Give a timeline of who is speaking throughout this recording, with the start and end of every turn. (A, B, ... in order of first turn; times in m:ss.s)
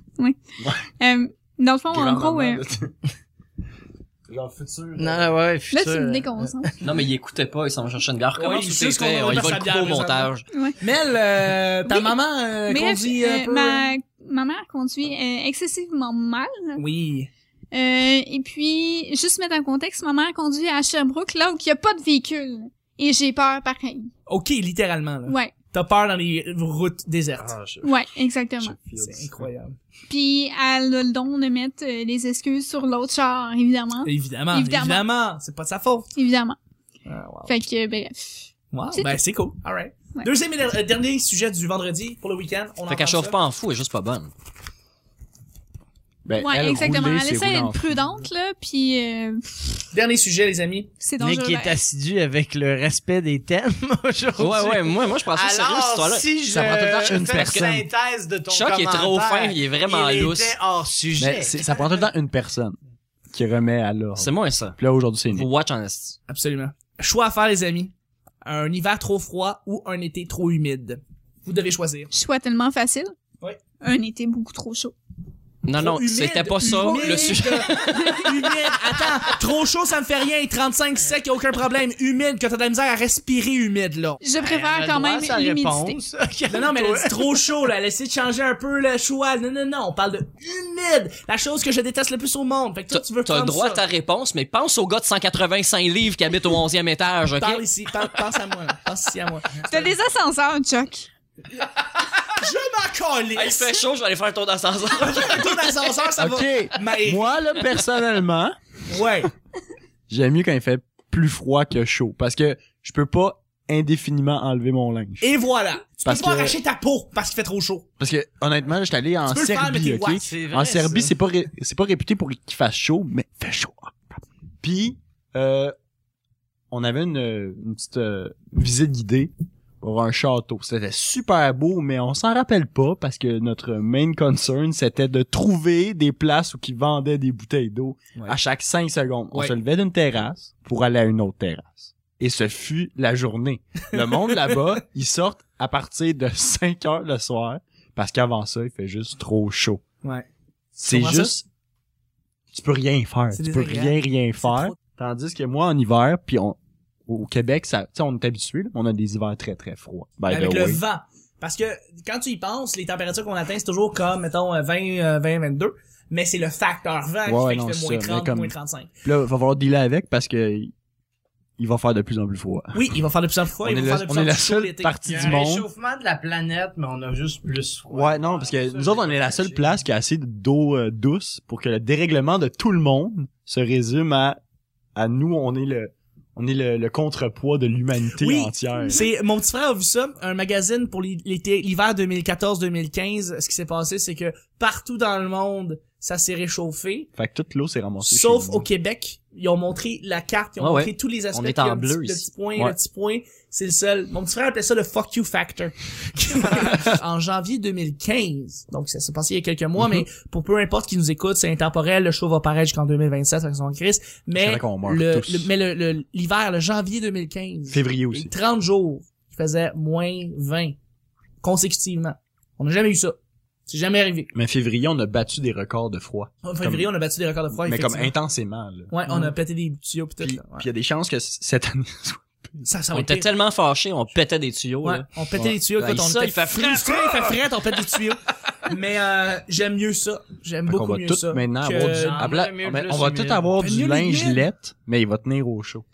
0:00.6-0:00.9 A
0:01.0-0:02.6 B
0:01.9-0:02.9 A
0:04.3-0:05.4 A
0:05.0-0:06.6 C
0:05.7-0:06.7 B
0:06.8-0:10.4 D
0:08.4-0:13.9 E
0:10.5-0:10.8 B
0:11.9-0:12.2 B
0:12.7-0:16.8 B
0:16.8-0:17.3 E
0:17.7-0:24.1 B
0:24.3-0:27.5 E
0:25.3-0:25.6 B
0:27.4-0:29.5 A
0:27.8-0:28.8 B
0:29.0-0:29.8 E
0:30.1-0:35.1 B
0:34.0-0:36.1 E
0:36.2-0:36.6 B
0:37.1-0:37.6 E
0:37.5-0:39.2 B
0:38.7-0:43.4 E
0:42.9-0:44.3 D
0:46.3-0:48.0 A
0:46.4-0:49.8 B
0:49.9-0:50.9 E
0:51.0-0:51.8 B
0:51.2-1:01.7 C
0:54.4-0:56.3 D
0:56.5-0:57.9 A
0:57.0-0:57.6 D
0:58.5-1:00.6 D
1:01.2-1:02.8 A
1:03.3-1:05.5 A
1:04.2-1:04.8 D
1:05.3-1:06.2 D
1:06.3-1:07.9 E
1:08.4-1:12.1 E
1:12.1-1:13.1 B
1:13.8-1:14.9 B
1:15.6-1:18.3 D
1:15.8-1:24.2 E
1:16.7-1:18.3 B
1:24.2-1:26.0 B
1:24.4-1:27.5 C
1:26.5-1:33.8 E
1:32.9-1:37.6 D
1:37.4-1:39.9 E
1:39.6-1:41.1 B
1:42.4-1:43.8 E
1:43.4-1:45.7 D
1:45.0-1:47.4 E
1:46.2-1:48.6 A
1:48.9-1:49.3 E
1:50.1-1:55.2 A
1:55.2-1:57.9 E
1:56.0-1:56.6 A
1:58.0-2:04.0 A
1:59.3-2:00.2 E
2:00.2-2:01.1 C
2:04.6-2:05.7 A
2:06.7-2:29.8 A
2:24.0-2:24.6 E
2:30.8-2:31.3 E
2:30.8-2:31.4 A
2:32.5-2:40.8 A
2:33.3-2:34.8 E
2:40.3-2:48.9 E
2:47.3-2:50.7 A
2:51.6-2:52.9 A
2:52.7-2:55.1 E
2:53.6-2:55.7 A
2:55.1-2:59.8 C
2:57.9-3:04.4 A
3:05.0-3:09.0 A
3:08.2-3:17.1 E
3:17.2-3:18.7 A
3:18.0-3:40.8 E
3:20.6-3:22.3 D
3:29.8-3:30.0 A
3:34.4-3:35.5 A
3:37.7-3:38.3 A
3:41.4-3:43.2 E
3:43.7-3:44.3 E
3:44.3-3:46.9 A
3:46.4-3:48.1 E
3:47.5-3:49.3 A
3:48.9-3:50.7 E
3:50.2-3:52.6 A
3:52.6-3:53.3 E
3:52.9-3:55.1 D
3:54.8-4:02.2 E
3:55.8-3:57.3 D
4:00.7-4:05.8 A
4:01.8-4:03.5 C
4:03.6-4:04.4 E